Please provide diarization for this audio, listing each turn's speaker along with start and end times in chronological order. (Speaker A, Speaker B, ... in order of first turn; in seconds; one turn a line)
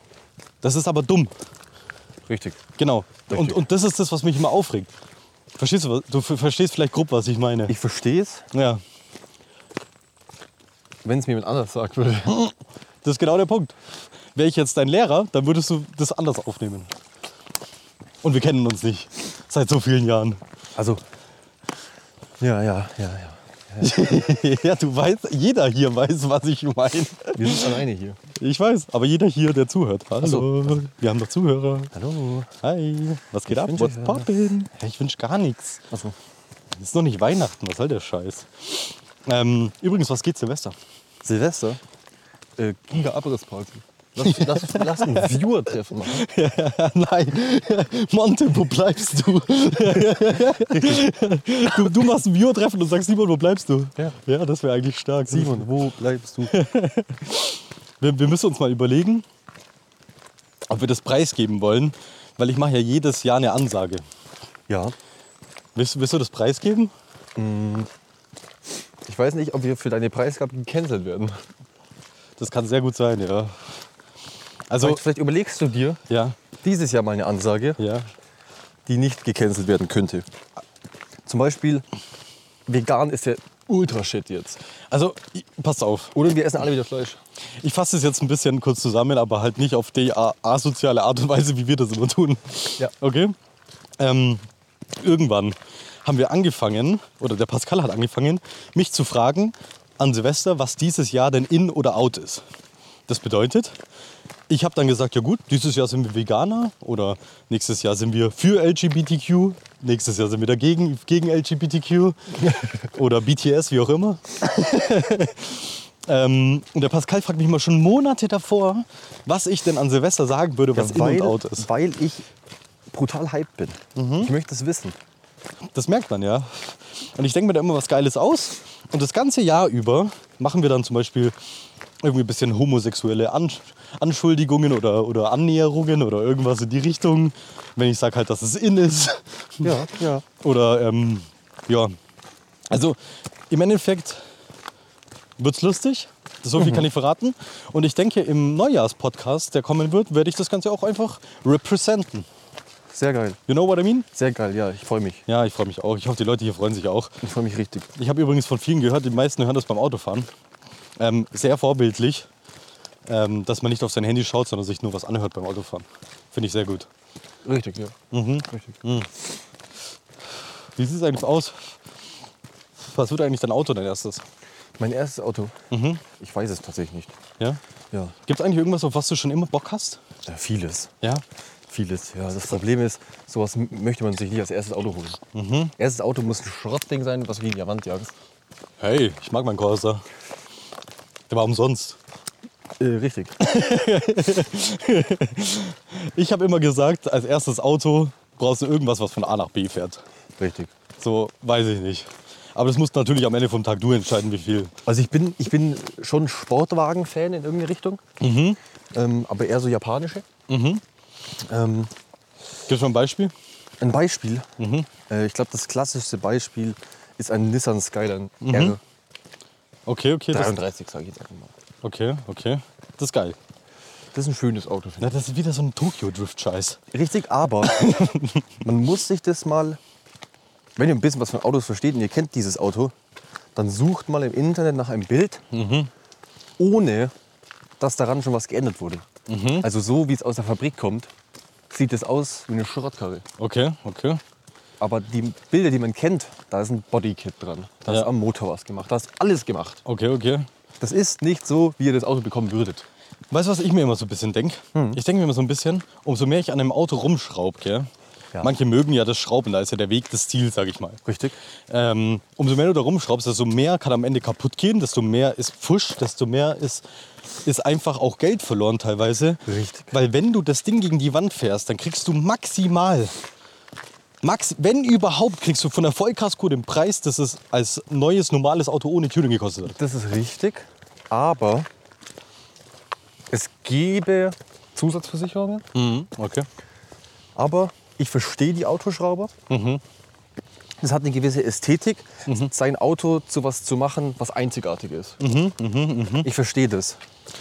Speaker A: 0.6-1.3
Speaker B: 2.3-2.6
Speaker A: 2.8-4.9
Speaker B: 3.3-3.6
Speaker A: 5.6-7.8
Speaker B: 7.7-8.5
Speaker A: 8.5-8.8
Speaker B: 11.1-12.5
Speaker A: 13.0-13.8
Speaker A: 14.3-16.9
Speaker A: 18.2-20.4
Speaker B: 20.8-21.0
Speaker B: 22.4-24.0
Speaker A: 23.8-27.8
Speaker B: 27.3-28.2
Speaker A: 28.3-31.9
Speaker B: 30.2-30.7
Speaker B: 31.9-32.5
Speaker A: 32.6-35.8
Speaker B: 33.5-34.5
Speaker B: 35.9-36.1
Speaker A: 36.8-40.8
Speaker B: 41.2-41.8
Speaker B: 42.6-46.3
Speaker A: 44.2-45.4
Speaker A: 46.0-55.7
Speaker B: 50.7-51.0
Speaker B: 51.7-52.0
Speaker B: 55.3-56.5
Speaker A: 56.5-59.2
Speaker A: 60.7-64.0
Speaker B: 64.7-65.0
Speaker A: 65.8-66.9
Speaker B: 67.4-67.9
Speaker B: 69.0-71.4
Speaker A: 72.4-73.7
Speaker A: 74.7-75.0
Speaker B: 74.8-76.0
Speaker A: 76.1-76.4
Speaker B: 76.6-77.8
Speaker A: 77.8-78.1
Speaker B: 78.9-80.3
Speaker B: 81.3-81.9
Speaker B: 82.7-84.6
Speaker A: 84.9-86.2
Speaker B: 86.2-87.2
Speaker A: 87.6-93.3
Speaker A: 94.0-94.5
Speaker A: 95.0-102.4
Speaker A: 103.1-103.8
Speaker A: 104.5-121.7
Speaker B: 112.4-112.7
Speaker B: 120.7-122.3
Speaker B: 122.9-125.0
Speaker A: 124.0-124.3
Speaker A: 125.8-131.3
Speaker A: 132.0-142.0
Speaker B: 139.6-140.2
Speaker A: 142.7-143.0
Speaker A: 143.5-144.2
Speaker A: 145.4-152.3
Speaker B: 146.6-146.9
Speaker B: 152.9-153.4
Speaker A: 153.5-154.1
Speaker B: 154.1-155.2
Speaker A: 155.3-157.2
Speaker B: 157.2-157.9
Speaker A: 158.0-160.3
Speaker A: 161.0-162.3
Speaker A: 163.1-166.9
Speaker B: 167.4-168.0
Speaker A: 168.1-169.1
Speaker A: 170.8-171.8
Speaker A: 172.8-174.2
Speaker B: 174.8-175.6
Speaker A: 175.7-176.0
Speaker B: 176.2-177.2
Speaker A: 178.2-180.0
Speaker B: 180.3-180.9
Speaker B: 181.7-185.2
Speaker A: 185.3-185.7
Speaker B: 185.8-188.1
Speaker A: 188.8-190.0
Speaker A: 191.3-192.0
Speaker B: 192.8-193.4
Speaker A: 193.4-200.0
Speaker B: 200.4-200.7
Speaker A: 201.0-204.7
Speaker B: 204.9-208.0
Speaker A: 208.2-208.6
Speaker B: 208.9-210.3
Speaker A: 210.5-210.8
Speaker B: 211.4-211.9
Speaker A: 212.7-213.3
Speaker B: 213.8-214.5
Speaker A: 214.6-214.9
Speaker B: 215.1-218.8
Speaker A: 218.4-218.8
Speaker A: 219.9-220.6
Speaker B: 220.3-221.5
Speaker A: 221.8-223.4
Speaker B: 224.1-225.2
Speaker A: 225.0-226.8
Speaker B: 226.9-228.0
Speaker A: 227.6-228.5
Speaker B: 228.6-229.8
Speaker B: 230.8-232.9
Speaker B: 233.6-235.4
Speaker A: 235.5-235.9
Speaker B: 236.6-237.1
Speaker B: 237.8-239.1
Speaker A: 239.3-239.7
Speaker B: 239.6-241.1
Speaker B: 241.7-243.2
Speaker A: 243.4-244.2
Speaker B: 244.8-249.8
Speaker A: 249.9-250.5
Speaker B: 250.8-252.9
Speaker A: 253.3-257.9
Speaker A: 258.4-261.0
Speaker B: 261.1-261.4
Speaker A: 261.7-266.8
Speaker A: 267.4-273.1
Speaker B: 269.5-269.9
Speaker A: 274.2-279.8
Speaker B: 279.6-281.7
Speaker B: 283.3-285.7
Speaker A: 285.7-286.5
Speaker B: 287.4-289.3
Speaker A: 289.5-289.8
Speaker B: 290.8-295.2
Speaker A: 295.2-296.3
Speaker B: 296.2-297.0